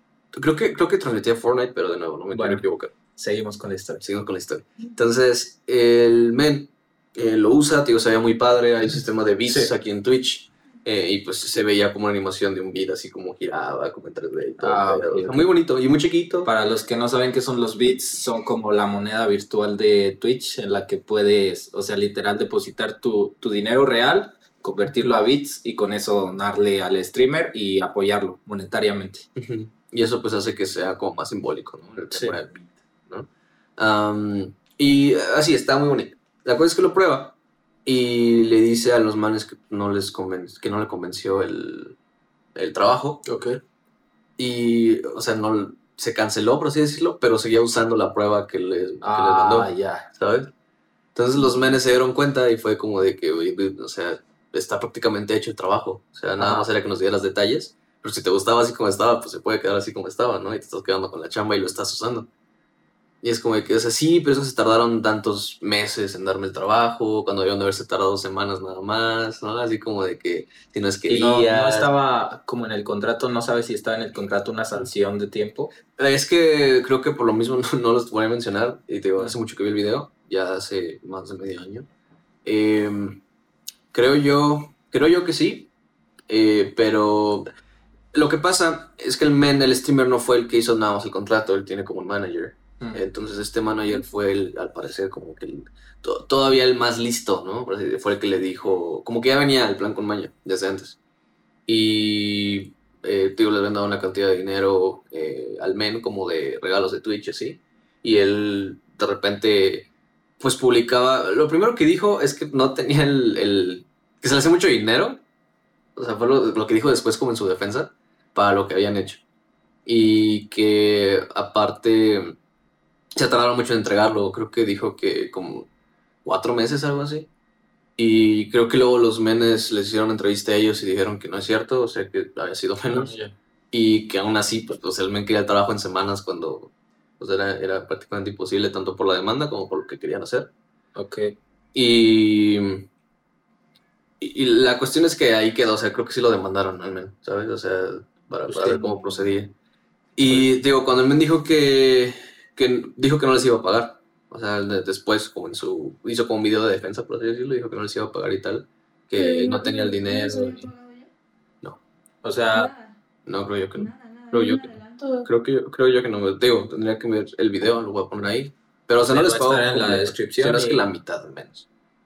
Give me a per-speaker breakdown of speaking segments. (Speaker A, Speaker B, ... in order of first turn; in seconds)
Speaker A: 0.3-3.0, 4.0-16.5, 29.4-42.0, 42.5-43.4, 44.4-50.5, 51.1-62.3, 63.2-71.9, 76.0-81.9, 82.5-83.2, 83.9-85.7, 86.3-87.5, 88.1-101.0, 101.7-109.9, 110.4-115.2, 116.0-119.2, 119.9-122.4, 123.2-125.7, 126.2-127.3, 128.0-133.1, 133.7-140.5, 141.7-142.9, 144.2-149.6, 150.2-160.7, 163.2-171.7
Speaker B: 2.3-2.6, 3.2-4.1, 14.6-15.4, 16.4-29.3, 32.1-32.4, 43.3-43.6, 49.0-50.1, 56.4-56.7, 71.1-75.7, 132.9-133.3, 140.9-141.4, 148.5-148.9, 150.3-150.5, 162.2-162.7, 169.1-170.8
Speaker C: 159.2-161.1, 162.5-163.0, 163.8-165.3